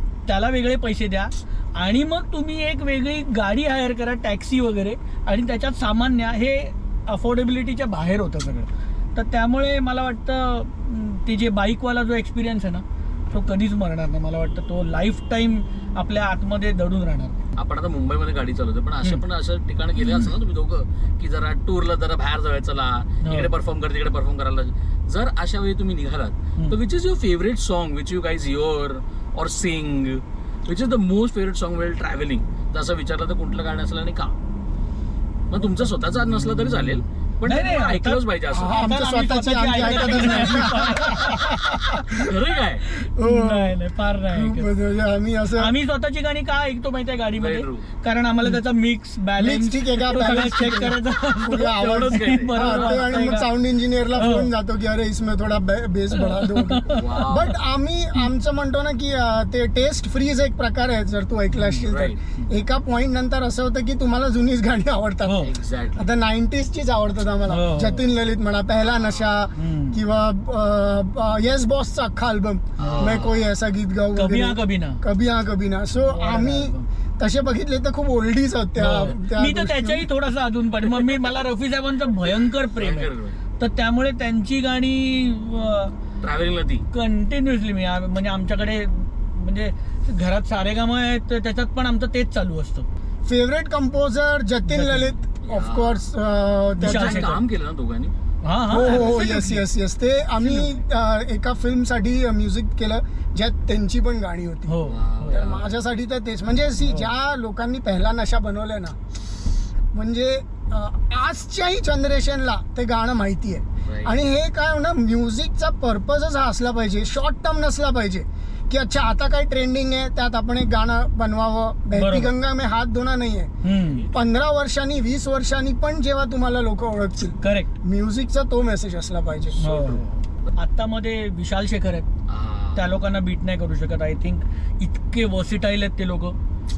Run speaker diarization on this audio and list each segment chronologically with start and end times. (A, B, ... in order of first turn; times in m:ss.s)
0:00.2-0:17.4 A
0:17.6-0:34.3 B
0:20.0-0:20.3 A
0:23.2-0:23.5 A
0:35.5-0:38.8 B
0:36.4-0:36.7 A
0:37.4-0:44.7 A
0:38.5-0:42.3 C
0:42.1-0:42.9 B
0:43.2-0:43.8 C
0:44.3-0:45.7 C
0:45.5-0:53.5 A
0:47.4-0:47.8 B
0:49.4-1:20.1 C
0:51.7-0:53.3 B
0:54.1-0:54.5 A
0:56.2-0:57.3 A
0:56.9-0:57.6 B
1:01.5-1:02.5 A
1:01.9-1:02.2 B
1:05.2-1:05.5 A
1:05.4-1:06.0 B
1:07.5-1:08.1 A
1:08.8-1:09.3 B
1:09.6-1:10.0 A
1:12.8-1:13.5 B
1:12.8-1:13.2 A
1:14.1-1:15.0 A
1:16.0-1:16.8 A
1:18.8-1:26.0 A
1:22.8-1:23.4 B
1:26.2-1:26.8 B
1:26.9-1:32.9 A
1:33.2-1:37.4 C
1:34.7-1:35.2 A
1:35.4-1:36.0 B
1:36.8-1:37.4 A
1:36.8-1:38.1 B
1:38.4-1:39.7 A
1:38.7-1:49.0 C
1:38.7-1:39.3 B
1:40.3-1:40.8 A
1:44.7-1:45.4 A
1:44.8-1:45.7 B
1:46.8-1:47.1 A
1:49.9-2:03.5 C
1:53.8-1:54.1 B
2:01.9-2:02.3 A
2:03.6-2:04.0 A
2:03.8-2:04.2 B
2:04.1-2:09.6 C
2:07.4-2:07.7 A
2:09.6-2:12.1 A
2:09.6-2:10.5 B
2:12.3-2:13.0 B
2:12.8-2:16.4 A